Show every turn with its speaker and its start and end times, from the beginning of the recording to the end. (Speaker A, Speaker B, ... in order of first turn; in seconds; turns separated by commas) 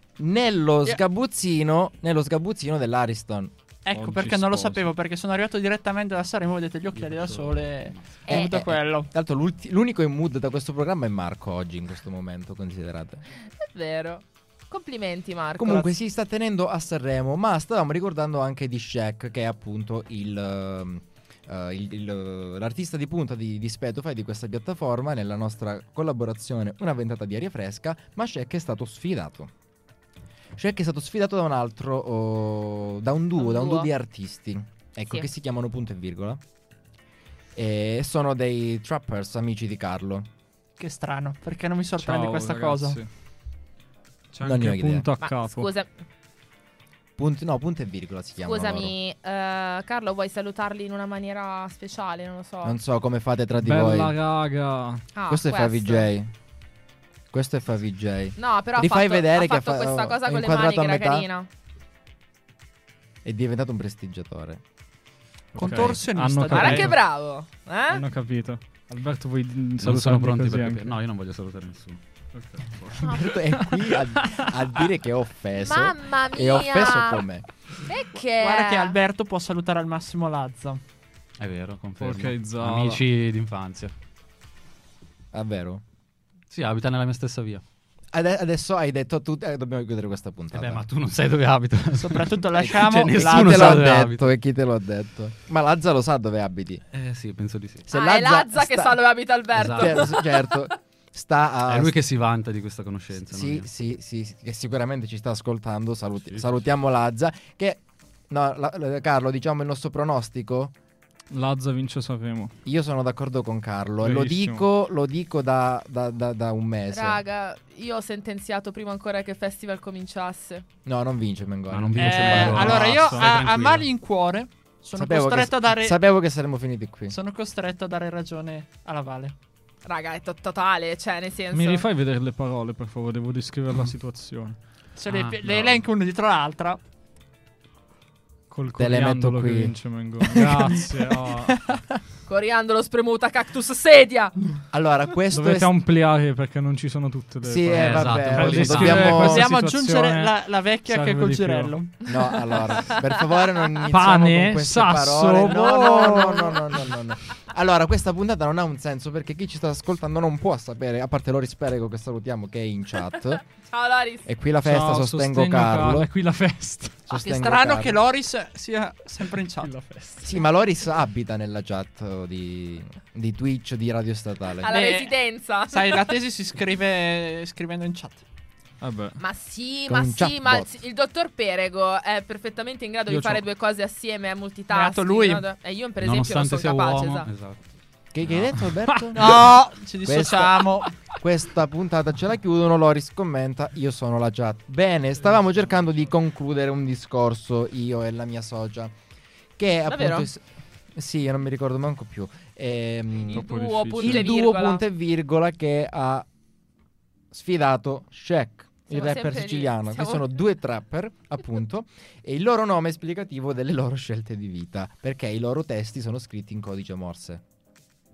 Speaker A: 0.2-3.5, Speaker B: 3.8-9.1, Speaker C: 3.9-4.8, Speaker D: 6.9-8.0, Speaker E: 8.2-8.5, Speaker A: 8.3-13.3, Speaker E: 13.6-15.9, Speaker A: 15.6-29.5, Speaker A: 30.6-36.4, Speaker E: 33.4-33.9, Speaker A: 37.5-40.3, Speaker B: 40.8-43.0, Speaker C: 42.0-43.1, Speaker C: 44.3-45.7, Speaker A: 44.4-45.1, Speaker E: 45.2-45.9, Speaker A: 47.2-48.9, Speaker E: 48.4-52.8, Speaker A: 52.6-54.1, Speaker C: 53.6-55.0, Speaker E: 55.1-56.1, Speaker A: 55.3-56.3, Speaker A: 57.3-61.3, Speaker E: 58.4-61.5, Speaker A: 63.2-64.6, Speaker C: 65.5-67.0, Speaker B: 65.5-66.9, Speaker E: 66.5-68.0, Speaker C: 67.9-70.9, Speaker D: 69.8-72.0, Speaker C: 72.3-74.5, Speaker E: 73.0-73.4, Speaker A: 73.0-77.4, Speaker E: 75.6-77.2, Speaker E: 77.8-79.0, Speaker B: 78.4-80.8, Speaker D: 81.4-83.9, Speaker C: 82.0-83.0, Speaker A: 85.3-85.8, Speaker D: 86.5-87.6, Speaker A: 88.1-90.8, Speaker D: 90.5-94.3, Speaker B: 92.0-93.9, Speaker A: 93.1-96.8, Speaker D: 96.9-97.8, Speaker A: 97.8-99.0, Speaker E: 97.9-100.5, Speaker D: 99.5-100.1, Speaker A: 99.7-102.0, Speaker D: 101.7-103.7, Speaker A: 103.2-110.7, Speaker C: 111.3-112.5, Speaker A: 112.6-117.2, Speaker C: 114.0-114.6, Speaker E: 116.9-120.6, Speaker A: 120.8-122.9, Speaker D: 121.7-123.9, Speaker B: 122.0-126.0, Speaker C: 122.1-123.4, Speaker A: 124.9-127.1, Speaker B: 127.1-129.3, Speaker E: 129.8-131.8, Speaker C: 131.5-134.6, Speaker B: 134.9-136.8, Speaker D: 135.1-135.8, Speaker C: 138.5-141.6, Speaker A: 138.7-142.0, Speaker E: 142.3-144.4, Speaker A: 144.7-145.7, Speaker C: 145.3-151.8, Speaker A: 147.4-149.5, Speaker D: 147.7-149.3, Speaker B: 149.2-152.1, Speaker A: 152.1-163.4, Speaker E: 152.8-153.2, Speaker C: 153.8-156.4, Speaker E: 155.6-156.6, Speaker B: 156.1-156.4, Speaker E: 163.5-164.2, Speaker A: 164.2-166.1, Speaker C: 164.6-167.1, Speaker A: 167.1-168.0, Speaker B: 167.1-169.8, Speaker C: 169.6-170.3, Speaker A: 170.2-174.7, Speaker E: 174.6-176.2, Speaker B: 174.6-178.2, Speaker C: 178.8-179.2, Speaker E: 179.2-187.3, Speaker A: 179.9-180.8, Speaker C: 183.1-183.4, Speaker B: 184.7-185.4, Speaker D: 186.0-187.6, Speaker A: 188.1-198.9, Speaker D: 188.2-188.6, Speaker B: 189.1-191.0, Speaker C: 195.2-196.1, Speaker A: 199.6-203.4, Speaker E: 199.9-200.3, Speaker E: 203.2-204.8, Speaker C: 203.3-204.3, Speaker A: 204.0-206.3, Speaker A: 207.3-217.4, Speaker E: 208.9-210.3